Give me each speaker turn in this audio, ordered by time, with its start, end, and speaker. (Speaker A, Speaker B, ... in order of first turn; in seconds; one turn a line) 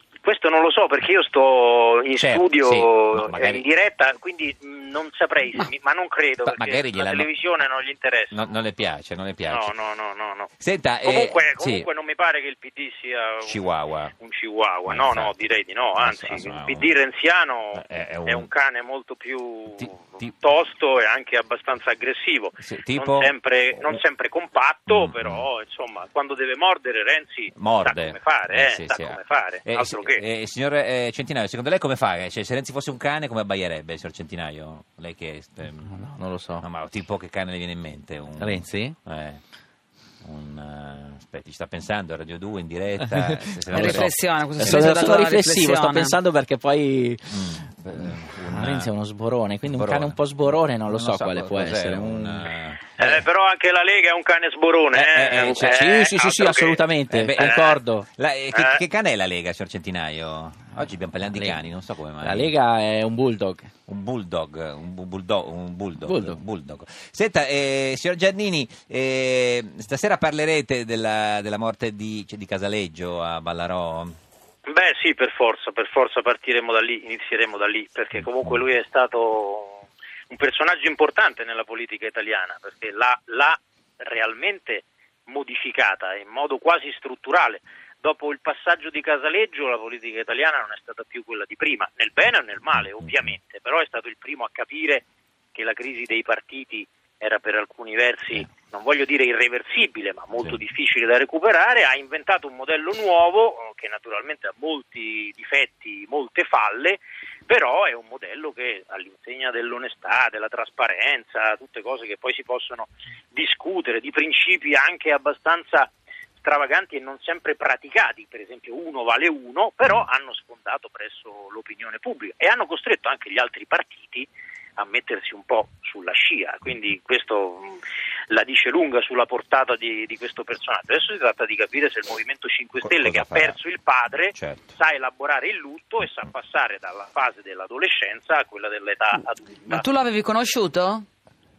Speaker A: 0.2-8.4
Speaker B: 2.2-3.6
Speaker B: 6.4-7.3
Speaker B: 8.3-9.7
Speaker A: 9.5-10.5
Speaker B: 10.6-11.9
Speaker A: 11.0-30.2
Speaker B: 13.4-14.1
Speaker B: 14.8-16.9
Speaker B: 17.7-18.5
Speaker B: 19.8-20.3
Speaker B: 22.6-24.0
Speaker B: 24.9-25.5
Speaker B: 27.5-36.0
Speaker C: 35.8-36.6
Speaker B: 36.6-39.4
Speaker C: 38.4-39.0
Speaker B: 40.2-44.1
Speaker C: 43.0-47.6
Speaker D: 43.7-46.1
Speaker B: 44.6-44.9
Speaker B: 47.3-48.9
Speaker C: 48.5-52.5
Speaker B: 49.6-53.2
Speaker A: 53.0-57.8
Speaker B: 54.9-55.8
Speaker C: 55.5-58.1
Speaker B: 57.1-57.6
Speaker B: 58.2-62.5
Speaker A: 58.5-58.8
Speaker C: 61.3-61.6
Speaker C: 62.2-63.7
Speaker B: 63.9-74.1
Speaker C: 66.0-66.4
Speaker A: 74.7-115.9
Speaker B: 78.2-78.6
Speaker B: 92.8-93.3
Speaker A: 116.4-139.8
Speaker B: 132.8-133.6
Speaker B: 134.3-134.7
Speaker D: 139.7-141.1